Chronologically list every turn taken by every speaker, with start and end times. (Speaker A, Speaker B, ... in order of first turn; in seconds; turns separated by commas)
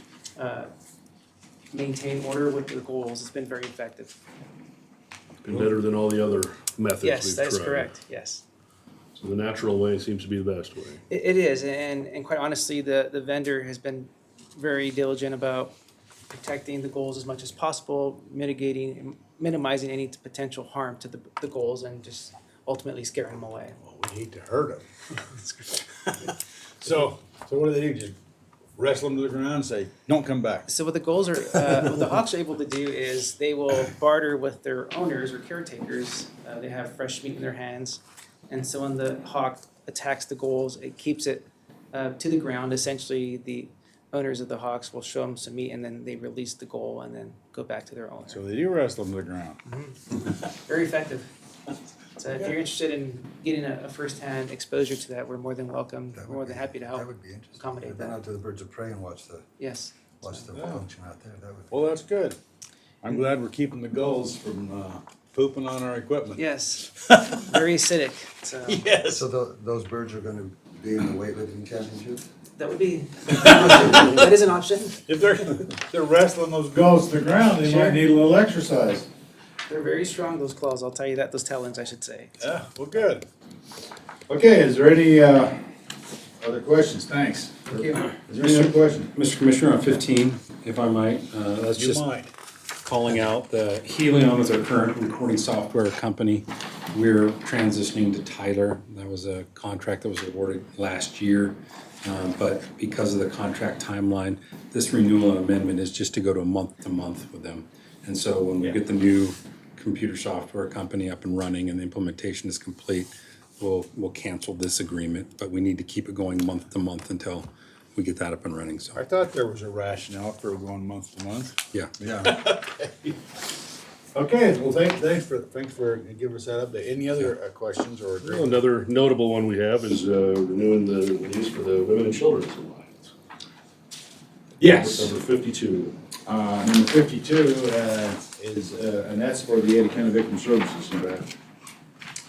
Speaker A: 0.4-0.7, Speaker A: 1.7-4.1, Speaker B: 5.4-7.9, Speaker A: 7.0-8.4, Speaker B: 9.2-11.0, Speaker A: 11.1-15.7, Speaker A: 16.3-23.8, Speaker C: 23.8-24.9, Speaker A: 25.2-26.3, Speaker C: 26.1-28.2, Speaker C: 28.8-30.7, Speaker A: 30.7-48.4, Speaker C: 48.3-49.6, Speaker A: 49.6-51.3, Speaker A: 52.2-58.2, Speaker D: 56.1-59.5, Speaker A: 59.6-60.4, Speaker D: 60.2-61.7, Speaker C: 60.5-60.9, Speaker C: 61.7-62.4, Speaker C: 63.0-66.5, Speaker A: 66.4-69.0, Speaker C: 67.0-67.5, Speaker C: 68.7-69.2, Speaker D: 69.1-72.2, Speaker A: 72.6-75.1, Speaker C: 73.5-74.0, Speaker C: 75.1-79.1, Speaker A: 77.6-78.0, Speaker A: 79.7-82.5, Speaker C: 82.4-83.2, Speaker C: 84.3-85.7, Speaker C: 86.4-89.1, Speaker A: 87.7-88.1, Speaker E: 88.3-92.0, Speaker C: 91.7-92.3, Speaker E: 92.8-119.0, Speaker C: 119.0-121.6, Speaker D: 122.0-122.3, Speaker C: 122.2-123.2, Speaker C: 124.1-128.6, Speaker B: 128.2-133.1, Speaker C: 134.6-135.1, Speaker B: 134.6-135.9, Speaker C: 136.3-141.3